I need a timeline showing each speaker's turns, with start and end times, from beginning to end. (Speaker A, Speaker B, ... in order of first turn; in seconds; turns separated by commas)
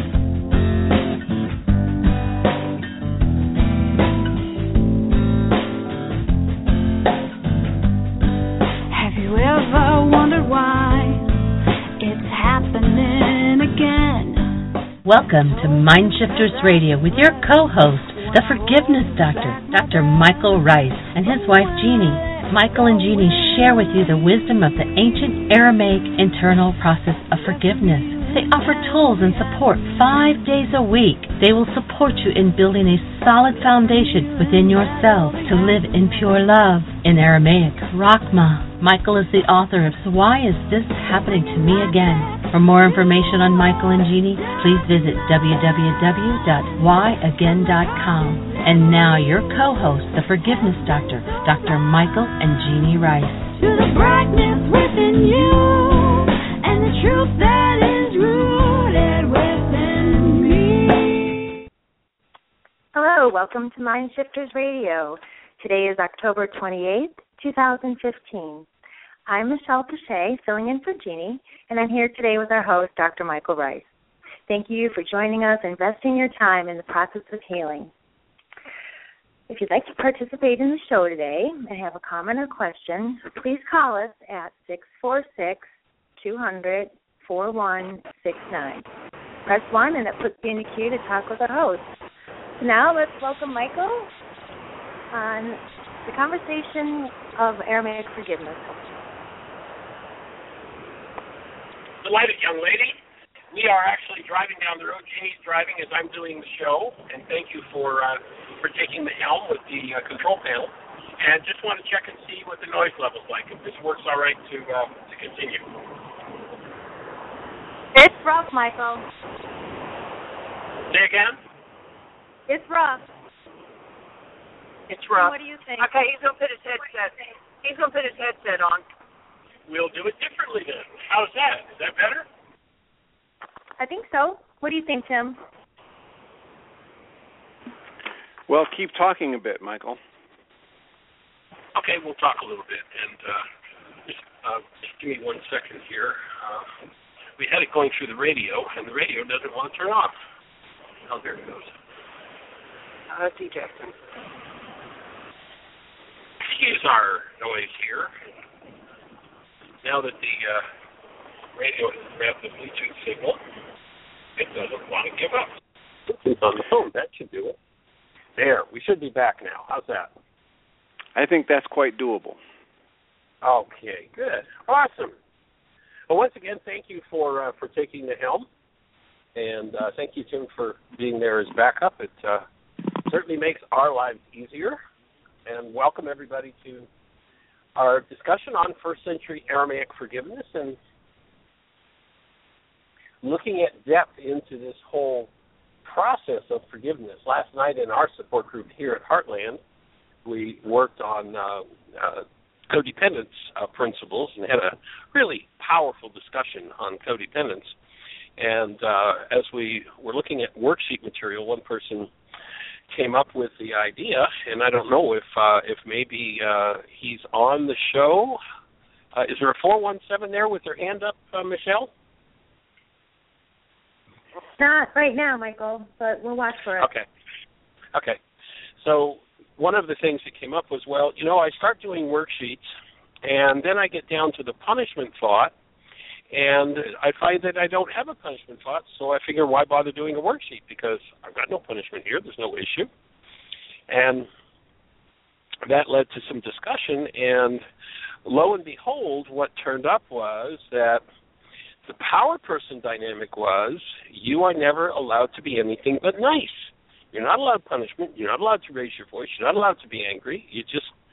Speaker A: 8.9-11.4, Speaker A: 12.0-14.7, Speaker B: 15.0-53.5, Speaker A: 53.6-61.5, Speaker C: 62.9-68.7, Speaker C: 69.3-73.9, Speaker C: 74.5-77.9, Speaker C: 79.5-85.7, Speaker C: 86.2-88.9, Speaker C: 89.5-91.9, Speaker C: 92.6-94.1, Speaker C: 95.1-98.9, Speaker D: 102.0-103.0, Speaker D: 103.5-115.7, Speaker C: 117.9-119.1, Speaker D: 120.9-121.4, Speaker C: 122.5-123.0, Speaker E: 124.9-128.8, Speaker C: 125.1-125.9, Speaker D: 129.7-132.3, Speaker C: 133.8-135.4, Speaker F: 138.5-140.0, Speaker D: 141.8-143.5, Speaker D: 144.1-146.7, Speaker D: 147.4-150.2, Speaker D: 151.0-151.7, Speaker E: 153.1-153.9, Speaker D: 156.4-158.1, Speaker D: 159.8-160.7, Speaker D: 161.6-163.4, Speaker D: 164.4-165.5, Speaker D: 166.1-167.6, Speaker D: 168.4-170.1, Speaker F: 171.2-172.4, Speaker D: 173.4-175.1, Speaker D: 176.1-178.5, Speaker D: 179.3-182.4, Speaker D: 183.0-184.8, Speaker D: 185.5-186.9, Speaker D: 187.8-190.8, Speaker D: 193.2-195.3, Speaker D: 195.8-199.6, Speaker D: 200.2-207.8, Speaker D: 208.4-212.1, Speaker D: 212.9-218.4, Speaker D: 219.2-221.9, Speaker C: 224.6-226.9, Speaker D: 226.8-227.1, Speaker D: 227.9-228.2, Speaker D: 228.8-232.7, Speaker D: 233.2-235.5, Speaker D: 236.3-242.9, Speaker D: 243.9-244.3, Speaker D: 245.7-247.6, Speaker D: 248.2-251.0, Speaker D: 251.9-260.9